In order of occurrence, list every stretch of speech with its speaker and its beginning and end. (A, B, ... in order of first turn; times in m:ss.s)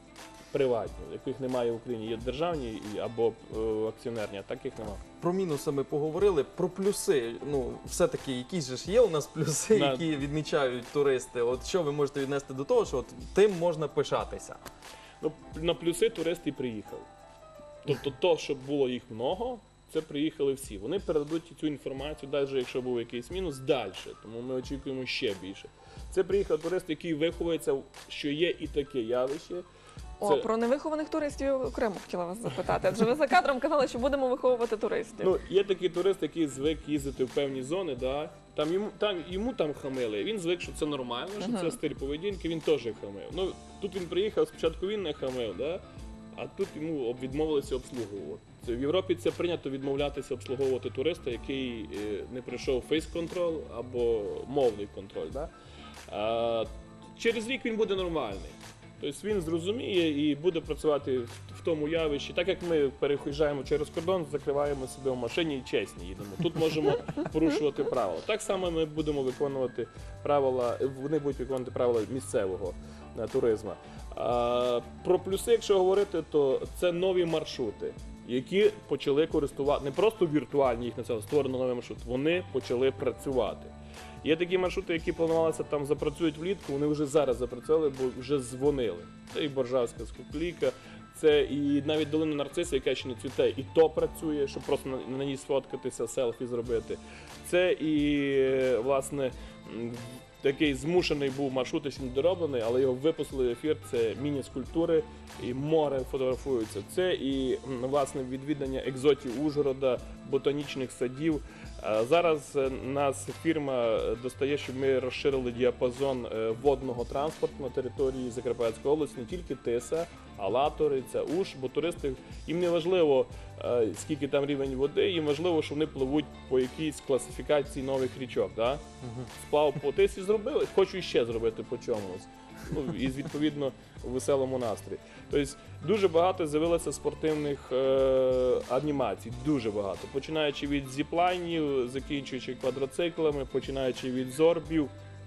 0:00.5-0:05.0 A
0:05.2-0:14.6 B
0:09.7-0:10.1 A
0:15.2-0:17.1 A
0:17.8-0:29.6 A
0:30.2-0:35.3 C
0:35.2-0:45.8 A
0:41.4-0:41.8 C
0:46.3-0:55.5 A
0:56.1-2:08.8 A
2:09.0-2:09.3 B
2:09.3-2:24.9 A